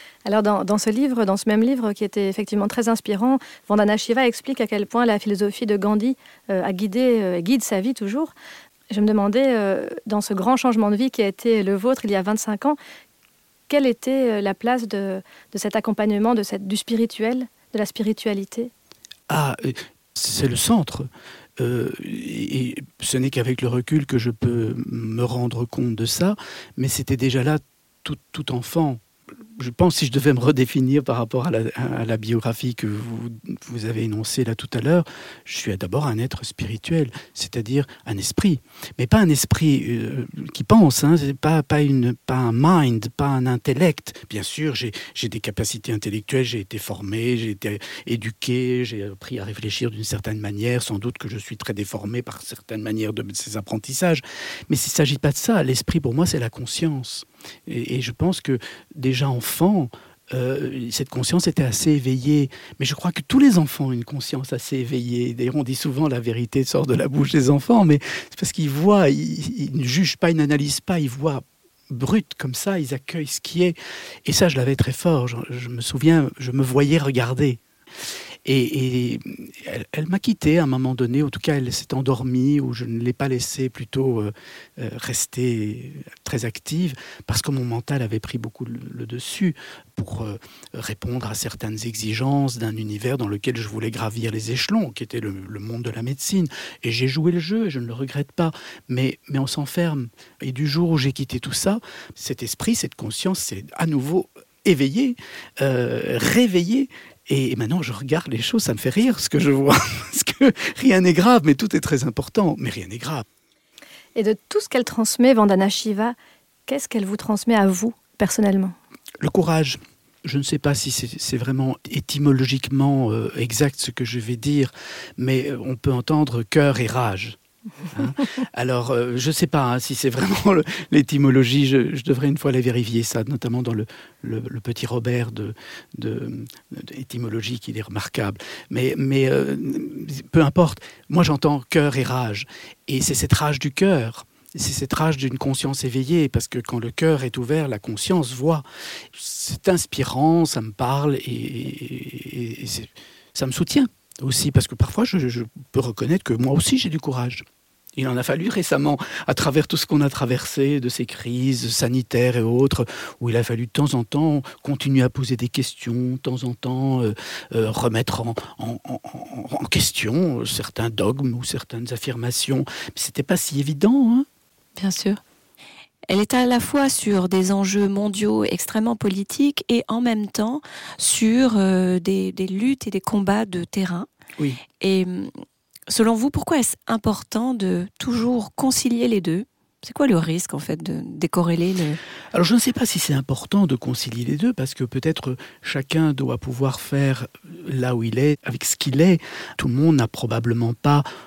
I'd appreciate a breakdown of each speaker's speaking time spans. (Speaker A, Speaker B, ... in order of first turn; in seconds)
Speaker A: 0.2-8.3, 8.9-12.8, 13.7-18.7, 114.2-116.2, 116.7-118.8
Speaker B: 19.3-29.0, 29.6-77.6, 78.5-113.2, 119.2-127.4, 127.9-157.4, 158.0-174.3, 184.4-184.6, 192.3-201.1
Speaker C: 174.8-175.2, 176.1-184.1, 184.8-185.3, 185.9-192.0